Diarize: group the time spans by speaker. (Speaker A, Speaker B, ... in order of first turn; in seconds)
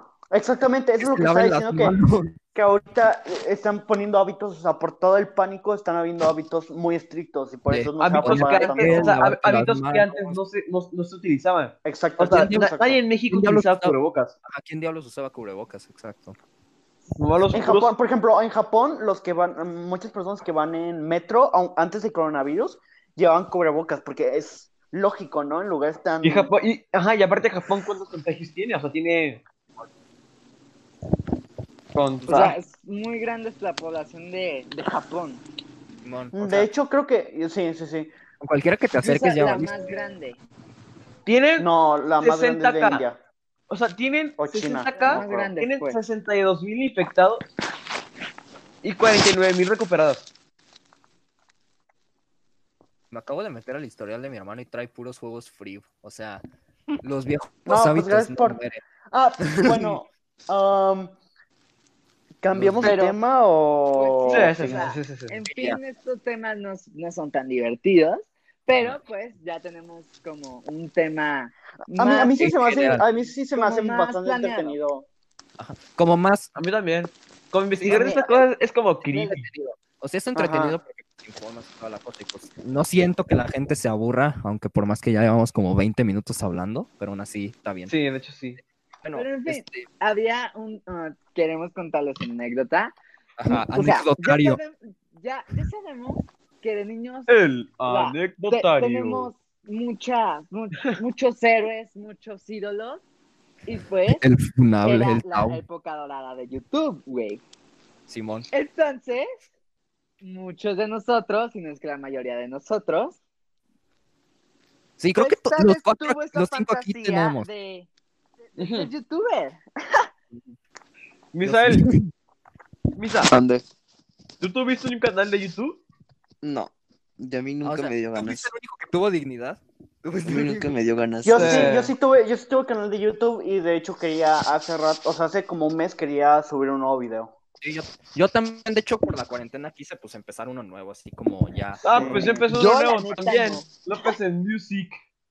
Speaker A: 0.3-1.9, 2.5-9.2, 11.8-13.0, 17.5-26.5, 36.3-38.1, 41.6-43.2, 44.4-45.5, 57.7-58.6, 59.1-61.1, 62.4-64.8, 71.9-75.1, 80.3-80.8, 131.2-137.3, 141.9-142.4
Speaker B: 1.0-2.4, 7.7-10.4, 12.3-16.4, 36.0-36.7, 38.4-39.7, 53.1-56.4, 57.0-58.8, 59.4-59.9, 62.5-62.9, 65.5-65.8, 72.4-73.0, 75.6-76.5, 77.8-78.2, 79.1-87.9, 89.0-89.9, 93.4-94.6, 104.1-105.6, 108.1-108.5, 115.0-117.5, 121.4-122.1, 127.6-130.7, 137.6-142.2
Speaker C: 8.0-14.3, 17.2-17.9, 26.2-29.4, 31.9-32.5, 41.2-41.7, 42.2-43.0, 43.7-47.5, 48.8-50.3, 64.3-65.4, 76.5-79.5, 87.9-88.6, 97.3-99.3, 118.6-118.9, 121.3-121.9, 122.9-123.3, 124.4-125.8, 131.3-131.9, 141.8-145.0
Speaker D: 32.3-35.4, 39.0-40.4, 45.0-46.0, 62.8-63.1, 63.9-72.5, 73.5-74.8, 77.8-78.4, 89.1-92.9, 93.5-103.0, 103.7-104.2, 104.8-107.4, 108.5-109.3, 110.2-113.2, 115.1-117.9, 118.5-120.1, 142.0-144.1
Speaker E: 123.2-123.6, 126.4-128.5, 130.2-131.7